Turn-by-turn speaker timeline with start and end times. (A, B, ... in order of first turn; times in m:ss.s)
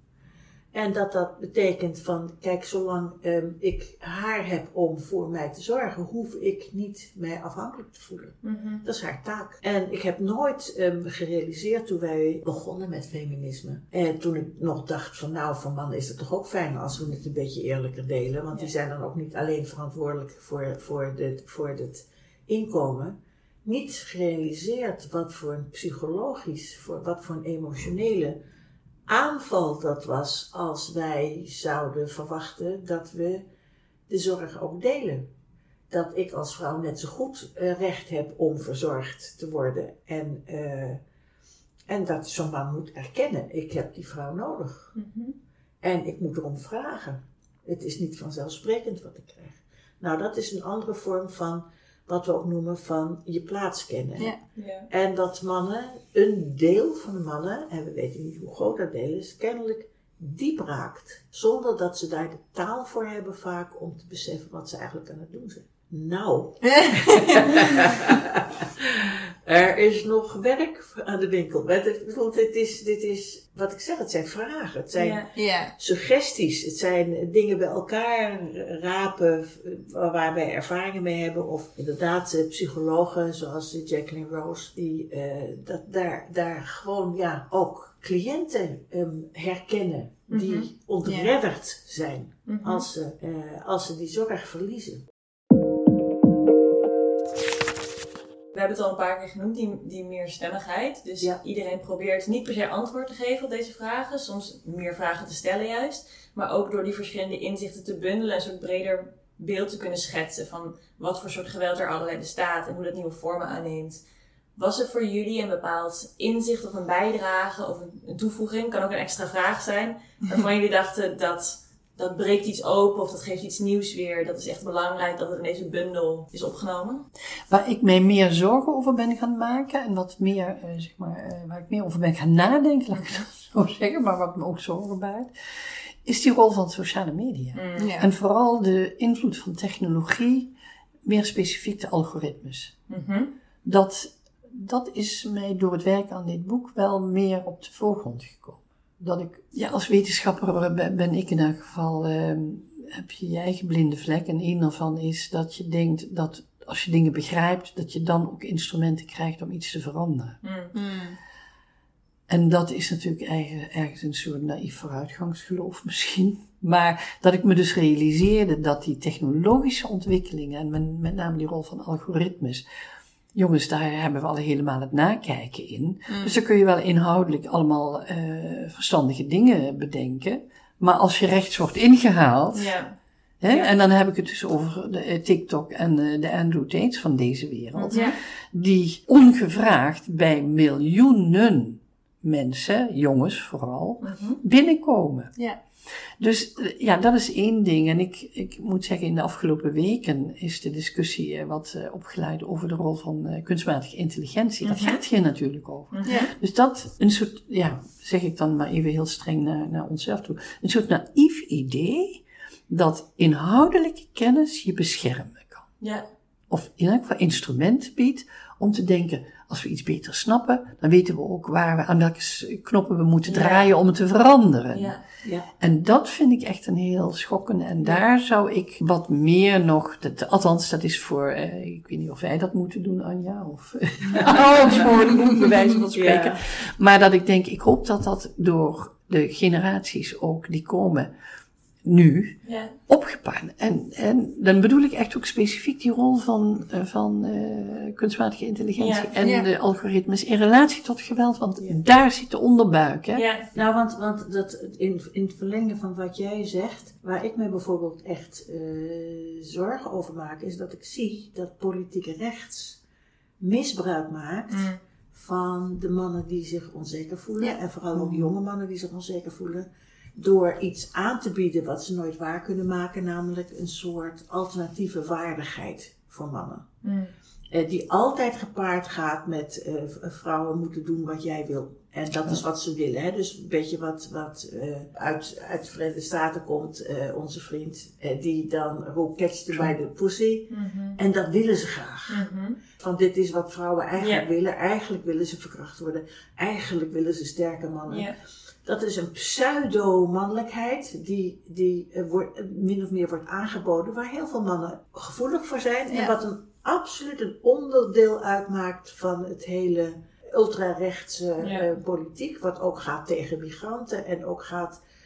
0:00.7-0:28.4 A
0:08.4-0:08.8 B
0:29.1-0:33.4 A
0:34.1-0:35.2 A
0:35.9-0:41.0 A
0:41.9-0:44.9 A
0:45.0-0:45.4 B
0:45.8-0:54.4 A
0:54.6-0:54.9 B
0:54.9-1:15.2 A
1:06.6-1:07.5 C
1:14.9-1:15.3 B
1:15.3-1:15.7 C
1:15.8-1:35.0 A
1:30.3-1:30.7 B
1:31.0-1:31.3 C
1:32.4-1:32.8 B
1:38.5-1:54.0 B
1:54.6-2:07.0 B
2:07.5-2:20.5 D
2:17.5-2:17.9 B
2:17.8-2:18.1 C
2:21.0-2:22.7 D
2:22.9-2:23.3 B
2:23.6-2:40.4 D
2:40.4-2:40.7 B
2:40.7-2:41.2 C
2:42.3-2:52.6 D
2:53.3-3:02.8 D
2:56.1-2:56.4 C
3:02.5-3:02.9 B
3:03.4-3:15.3 D
3:07.8-3:08.2 B
3:14.0-3:14.4 B
3:16.2-3:35.7 D
3:24.6-3:25.0 B
3:25.9-3:26.3 B
3:35.8-3:36.0 B
3:36.5-3:45.0 D
3:43.2-3:43.7 B
3:44.7-3:45.0 B
3:45.6-4:01.1 D
3:55.9-3:56.4 A
4:01.8-4:02.4 D
4:02.4-4:02.7 B
4:02.9-4:13.2 D
4:08.8-4:09.1 B
4:09.2-4:09.5 C
4:13.1-4:13.5 B
4:13.5-4:22.8 A
4:23.4-4:36.7 A
4:24.5-4:24.8 B
4:36.8-4:37.1 B
4:37.5-4:58.1 A
4:50.5-4:51.0 B
4:52.1-4:52.6 B
4:54.0-4:54.2 B
4:57.9-4:58.1 B
4:58.6-5:14.8 A
5:11.4-5:11.6 B